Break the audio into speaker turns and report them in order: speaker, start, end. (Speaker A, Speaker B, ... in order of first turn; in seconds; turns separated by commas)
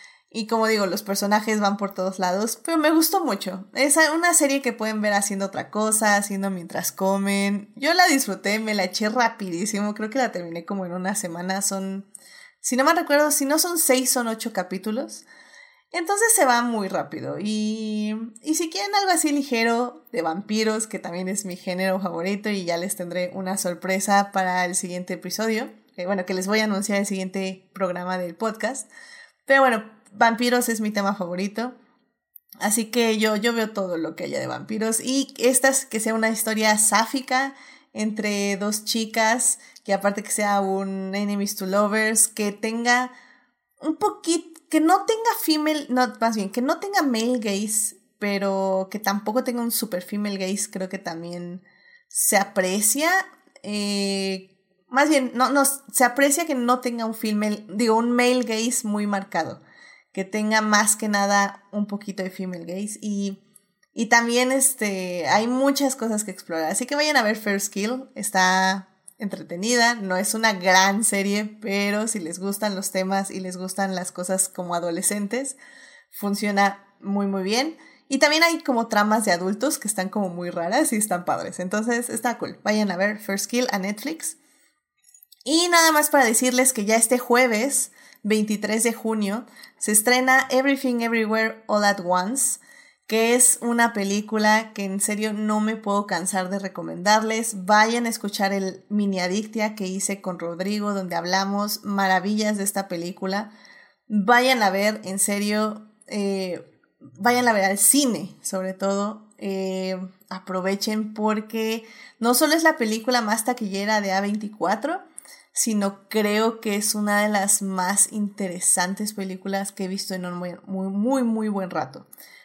Speaker A: 0.3-12.1, Speaker A: 12.6-15.3, Speaker A: 15.9-28.9, Speaker A: 29.5-31.8, Speaker A: 32.6-43.1, Speaker A: 43.8-59.6, Speaker A: 60.1-63.4, Speaker A: 64.0-75.6, Speaker A: 76.1-84.4, Speaker A: 85.5-103.5, Speaker A: 104.1-106.7, Speaker A: 107.2-122.1